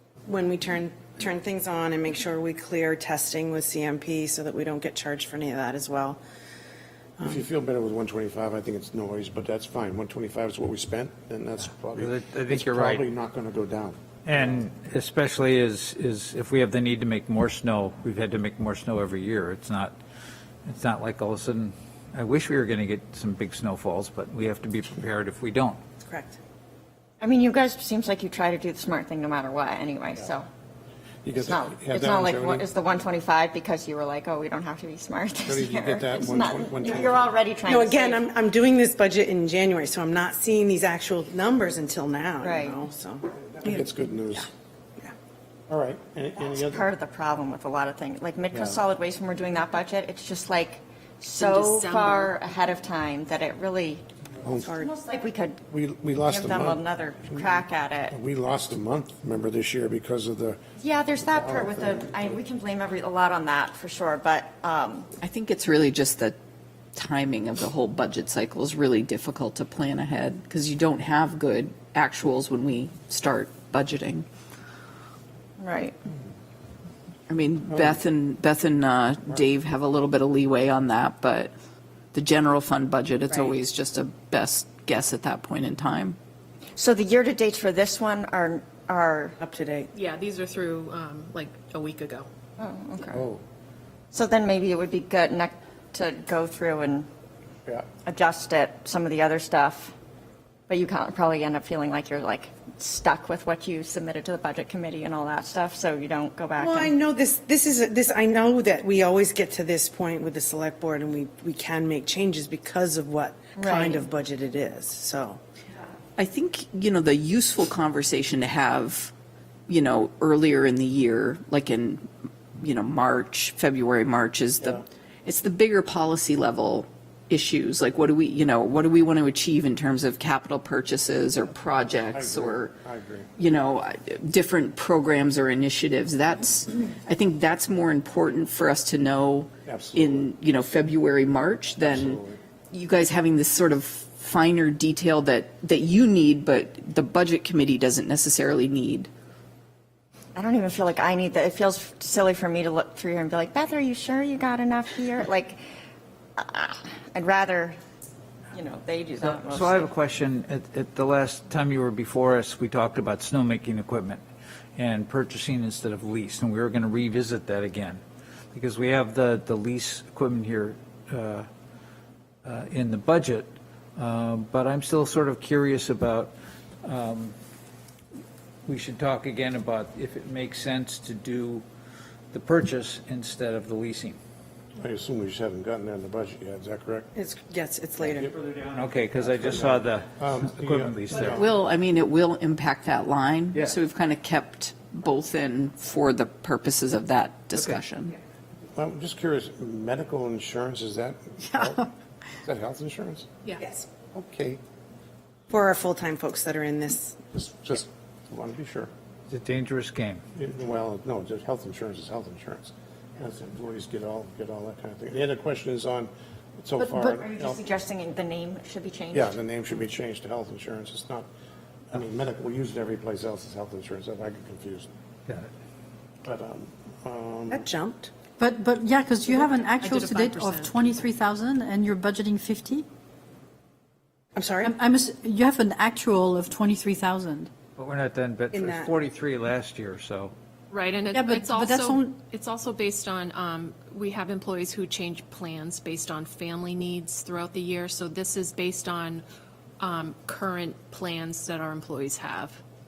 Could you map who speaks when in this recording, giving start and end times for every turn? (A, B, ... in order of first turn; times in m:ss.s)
0:00.2-0:06.2 A
0:07.2-0:14.5 B
0:11.9-0:13.1 C
0:14.2-0:20.0 C
0:20.6-0:25.8 C
0:26.0-0:26.4 A
0:27.2-0:30.5 D
0:31.2-0:32.6 B
0:31.4-0:38.2 D
0:35.4-0:37.3 B
0:37.7-0:44.5 A
0:42.4-0:42.8 D
0:43.6-0:44.5 B
0:45.7-0:46.8 B
0:46.4-0:54.0 D
0:48.5-0:48.8 B
0:51.3-0:52.4 E
0:54.4-0:54.7 B
0:54.6-0:54.9 A
0:54.7-0:55.6 D
0:55.7-1:00.6 B
0:56.2-0:58.1 D
1:00.8-1:05.1 D
1:01.3-1:02.4 B
1:05.2-1:06.4 F
1:06.9-1:14.2 F
1:15.6-1:15.9 D
1:17.3-1:21.5 F
1:22.1-1:26.2 F
1:23.3-1:23.6 A
1:26.8-1:29.4 D
1:29.4-1:29.9 A
1:29.9-1:32.3 E
1:32.6-1:33.2 D
1:33.1-1:33.4 B
1:34.1-1:37.1 D
1:38.0-1:39.9 D
1:40.7-1:47.0 D
1:46.6-1:55.4 A
1:53.6-1:54.0 D
1:56.2-1:59.1 F
1:59.7-2:02.1 F
2:02.6-2:12.7 F
2:12.0-2:13.3 B
2:13.4-2:29.1 F
2:19.6-2:20.3 B
2:21.8-2:22.4 B
2:30.3-2:35.6 D
2:36.4-2:37.8 D
2:38.5-2:39.9 D
2:39.2-2:44.2 C
2:44.8-2:48.0 C
2:48.5-2:51.5 C
2:52.4-2:57.3 C
2:58.6-3:01.6 C
3:02.3-3:04.2 C
3:04.8-3:07.1 B
3:07.1-3:08.3 A
3:08.2-3:11.4 C
3:09.2-3:11.4 B
3:11.3-3:18.1 F
3:18.7-3:23.3 B
3:21.5-3:21.8 G
3:23.6-3:23.9 A
3:24.1-3:24.6 B
3:25.5-3:27.2 A
3:27.3-3:28.9 B
3:29.3-3:30.2 C
3:30.4-3:37.6 B
3:36.8-3:39.4 D
3:39.1-3:41.3 B
3:41.9-3:44.9 B
3:46.2-3:47.6 B
3:47.5-3:48.1 A
3:48.4-3:52.8 G
3:49.8-3:50.7 E
3:54.3-3:54.7 A
3:54.6-3:57.5 G
3:57.8-4:00.3 C
3:58.5-3:58.9 A
4:00.7-4:09.2 E
4:01.1-4:02.2 G
4:09.8-4:12.6 E